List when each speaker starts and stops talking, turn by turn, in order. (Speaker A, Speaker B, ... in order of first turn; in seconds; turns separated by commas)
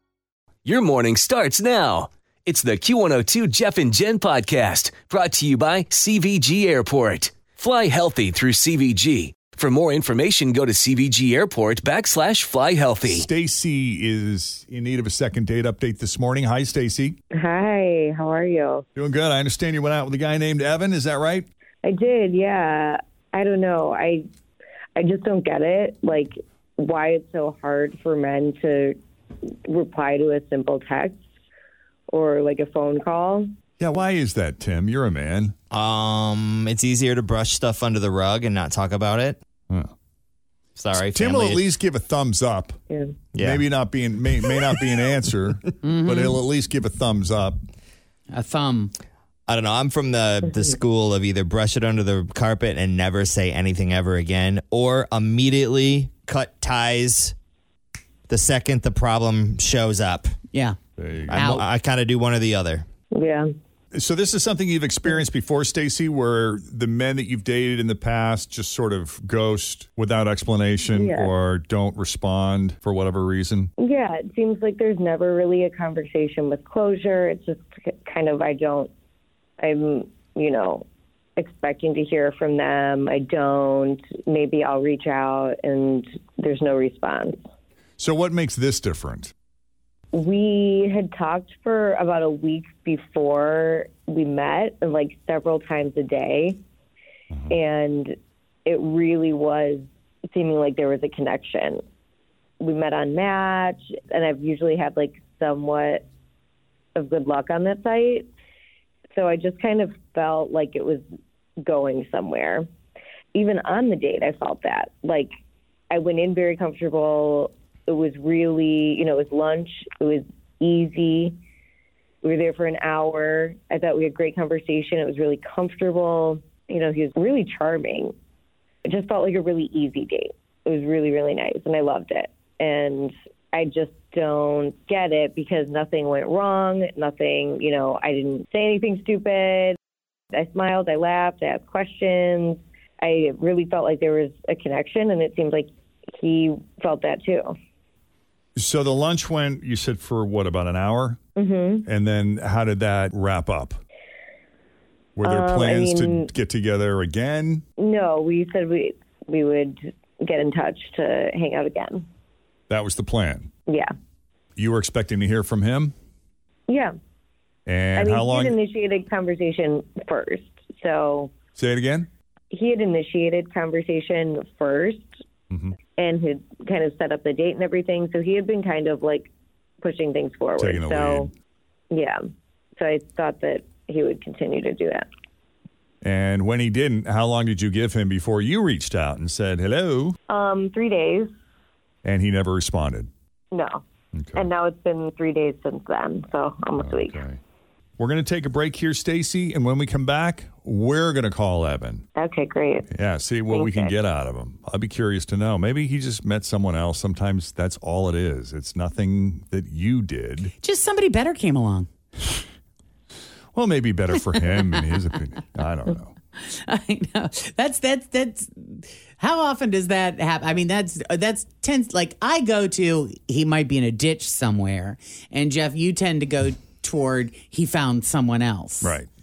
Speaker A: 0.7-13.3, Speaker B: 13.1-17.2, Speaker C: 17.4-18.8, Speaker B: 19.0-21.5, Speaker C: 21.8-24.2, Speaker C: 25.0-29.0, Speaker C: 29.7-31.2, Speaker C: 32.1-33.5, Speaker B: 33.8-35.5, Speaker D: 35.7-39.4, Speaker D: 40.8-41.7, Speaker B: 41.0-42.8, Speaker D: 43.3-43.6, Speaker B: 43.4-47.6, Speaker E: 45.8-46.4, Speaker E: 48.3-48.9, Speaker D: 49.5-57.4, Speaker D: 58.3-60.4, Speaker E: 60.5-60.8, Speaker B: 61.0-61.5, Speaker D: 61.3-62.9, Speaker E: 61.3-61.6, Speaker C: 63.1-63.5, Speaker B: 63.9-73.7, Speaker C: 70.9-71.3, Speaker C: 73.8-78.9, Speaker C: 79.6-80.8, Speaker C: 81.4-87.4, Speaker B: 88.0-89.3, Speaker C: 90.1-96.6, Speaker C: 97.5-98.1, Speaker C: 98.7-101.8, Speaker C: 102.6-106.0, Speaker C: 107.0-108.3, Speaker C: 109.2-111.0, Speaker C: 111.6-112.7, Speaker C: 113.3-115.3, Speaker C: 115.9-121.3, Speaker C: 122.2-128.1, Speaker C: 128.9-139.8, Speaker C: 140.3-147.5, Speaker B: 148.6-151.2, Speaker C: 151.4-151.9, Speaker B: 151.9-153.8, Speaker B: 155.2-157.6, Speaker C: 155.2-156.3, Speaker C: 157.8-162.0, Speaker B: 162.7-163.5, Speaker B: 164.6-165.9, Speaker B: 167.7-168.6, Speaker C: 168.0-171.3, Speaker B: 171.6-172.1, Speaker C: 172.5-175.1, Speaker B: 175.5-175.8, Speaker C: 176.0-179.3, Speaker C: 179.8-181.3, Speaker B: 180.6-181.3, Speaker C: 181.9-182.2, Speaker C: 182.8-185.1, Speaker B: 186.0-190.2, Speaker C: 190.3-191.3, Speaker B: 192.0-193.1, Speaker C: 193.5-193.8, Speaker B: 194.2-194.5, Speaker C: 194.4-197.2, Speaker B: 196.8-197.4, Speaker B: 198.0-202.1, Speaker C: 202.2-202.9, Speaker B: 202.9-210.5, Speaker C: 203.5-203.9, Speaker E: 210.6-211.9, Speaker B: 213.6-216.1, Speaker E: 214.3-215.0, Speaker E: 216.4-229.0, Speaker B: 228.8-229.1